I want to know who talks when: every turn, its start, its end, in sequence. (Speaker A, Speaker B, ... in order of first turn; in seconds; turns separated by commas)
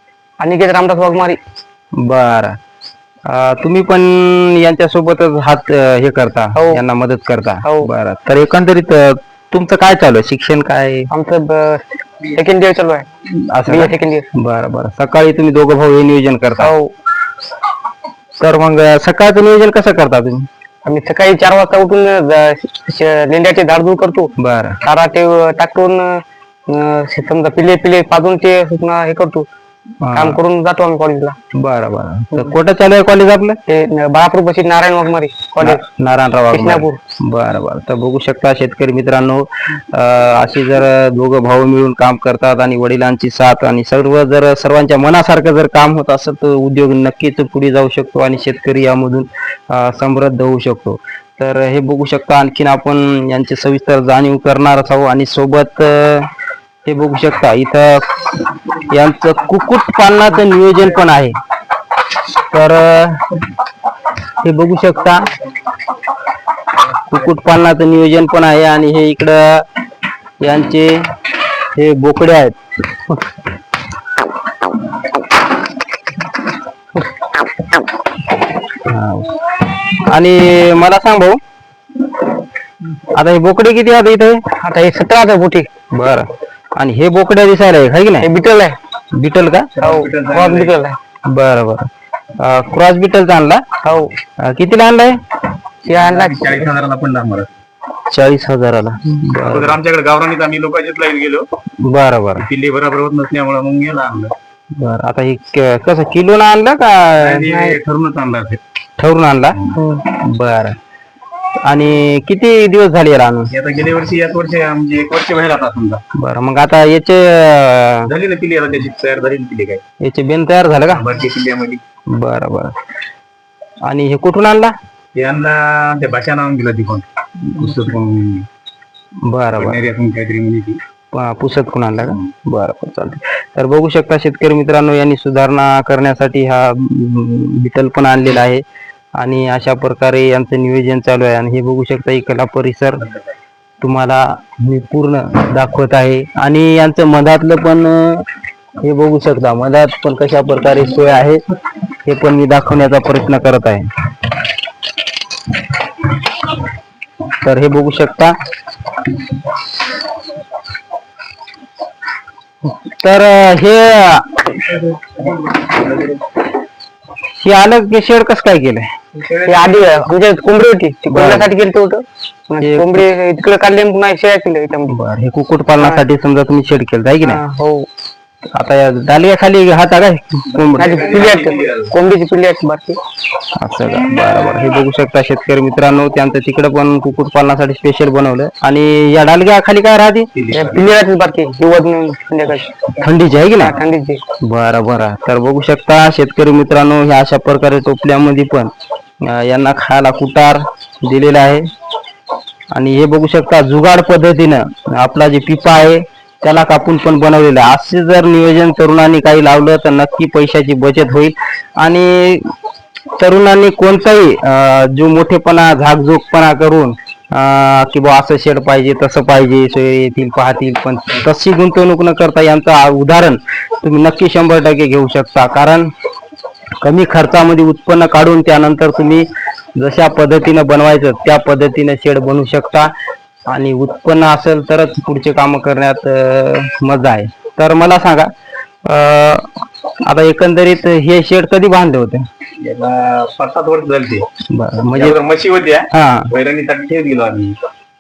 Speaker A: 0.4-1.4, Speaker B: 2.0-2.6, Speaker B: 3.2-11.1, Speaker A: 6.5-6.8, Speaker A: 7.6-7.9, Speaker A: 11.1-13.1, Speaker B: 13.3-16.7, Speaker A: 13.7-14.3, Speaker A: 16.6-16.9, Speaker B: 18.4-20.5, Speaker A: 20.8-29.4, Speaker B: 24.4-24.8, Speaker B: 30.0-30.4, Speaker A: 30.1-31.4, Speaker B: 31.5-33.6, Speaker A: 33.7-35.8, Speaker B: 35.6-56.3, Speaker A: 36.5-37.0, Speaker B: 56.8-58.2, Speaker B: 58.9-61.4, Speaker B: 62.4-63.3, Speaker B: 64.4-65.3, Speaker B: 67.1-69.7, Speaker B: 70.4-71.1, Speaker B: 71.7-72.6, Speaker B: 78.8-81.4, Speaker B: 83.1-84.4, Speaker A: 84.6-85.7, Speaker B: 85.9-88.3, Speaker A: 88.2-88.8, Speaker B: 89.1-89.7, Speaker C: 89.7-90.8, Speaker A: 89.8-91.0, Speaker B: 91.2-93.7, Speaker A: 93.8-94.1, Speaker B: 94.4-95.2, Speaker A: 95.8-96.7, Speaker C: 95.9-97.5, Speaker B: 98.1-99.8, Speaker C: 99.4-101.5, Speaker B: 101.8-102.5, Speaker C: 102.4-104.3, Speaker B: 104.8-107.8, Speaker C: 107.2-108.6, Speaker B: 109.0-110.8, Speaker A: 109.7-110.0, Speaker B: 111.6-113.5, Speaker C: 113.5-116.0, Speaker B: 116.1-118.1, Speaker C: 118.0-119.8, Speaker B: 120.0-121.0, Speaker C: 120.9-121.8, Speaker B: 122.1-122.7, Speaker B: 123.8-124.7, Speaker C: 125.2-128.5, Speaker B: 129.2-129.8, Speaker C: 129.6-130.8, Speaker B: 131.1-138.6, Speaker B: 139.2-143.0, Speaker B: 143.8-148.2, Speaker B: 148.8-151.4, Speaker B: 152.0-153.9, Speaker B: 157.4-158.3, Speaker B: 162.7-164.5, Speaker B: 167.3-168.9, Speaker C: 169.1-170.1, Speaker A: 169.4-174.9, Speaker B: 171.1-171.5, Speaker B: 172.6-173.0, Speaker B: 174.9-177.4, Speaker A: 175.8-176.1, Speaker A: 177.2-177.9, Speaker B: 178.5-181.1, Speaker C: 180.6-181.9, Speaker A: 180.7-183.0, Speaker B: 183.6-190.3, Speaker C: 190.3-190.8, Speaker A: 190.5-192.8, Speaker B: 192.9-193.8, Speaker A: 193.4-194.2, Speaker B: 194.4-201.7, Speaker B: 202.7-212.5, Speaker B: 213.2-225.9, Speaker B: 226.8-232.9, Speaker B: 233.5-238.3, Speaker B: 238.8-239.5, Speaker B: 240.0-242.3, Speaker C: 242.6-244.3, Speaker B: 244.5-245.2, Speaker C: 244.9-247.6, Speaker B: 245.9-246.3